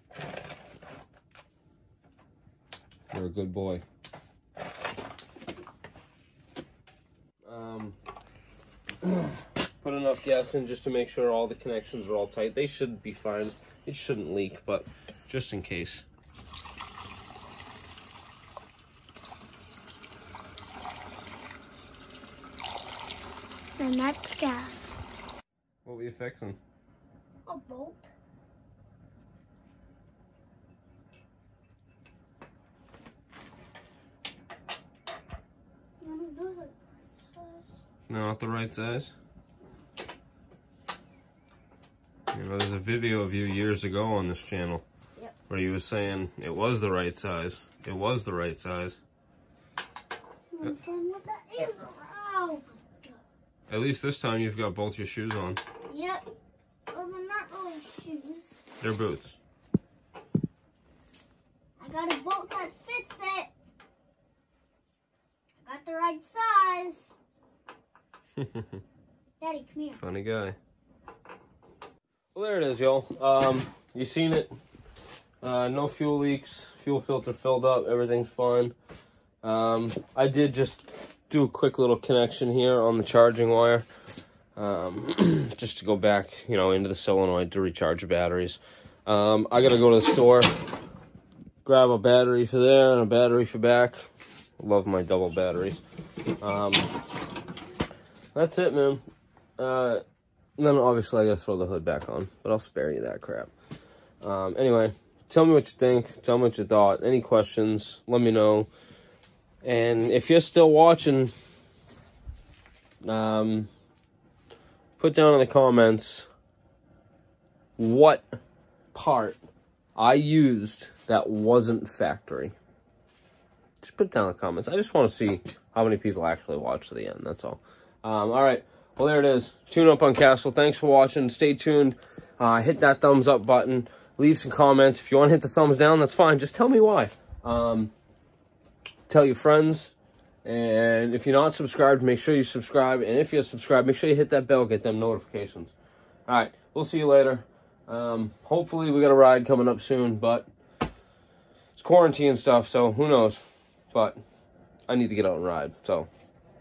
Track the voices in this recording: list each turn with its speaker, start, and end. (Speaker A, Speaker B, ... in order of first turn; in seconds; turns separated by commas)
Speaker A: 3.1-3.8, Speaker A: 7.5-8.0, Speaker A: 9.0-16.1, Speaker B: 23.8-25.0, Speaker A: 25.9-26.6, Speaker B: 27.5-28.1, Speaker B: 36.0-37.7, Speaker A: 38.1-39.1, Speaker A: 42.3-44.9, Speaker A: 45.5-49.0, Speaker B: 50.5-53.2, Speaker A: 53.7-55.6, Speaker B: 55.9-56.2, Speaker B: 56.9-58.6, Speaker A: 58.8-59.4, Speaker B: 61.8-63.5, Speaker B: 65.6-67.2, Speaker A: 68.4-68.7, Speaker B: 69.4-70.0, Speaker A: 70.0-70.6, Speaker A: 72.3-74.5, Speaker A: 75.4-78.7, Speaker A: 79.4-83.9, Speaker A: 84.6-90.5, Speaker A: 91.7-94.0, Speaker A: 94.6-95.8, Speaker A: 96.4-96.9, Speaker A: 98.3-99.0, Speaker A: 99.6-100.0, Speaker A: 100.6-103.5, Speaker A: 104.2-108.7, Speaker A: 109.6-111.3, Speaker A: 113.0-113.7, Speaker A: 115.0-116.3, Speaker A: 117.8-118.3, Speaker A: 118.9-119.4, Speaker A: 120.0-122.5, Speaker A: 123.8-137.9, Speaker A: 139.1-145.7, Speaker A: 146.3-150.5, Speaker A: 151.8-154.2, Speaker A: 154.9-156.1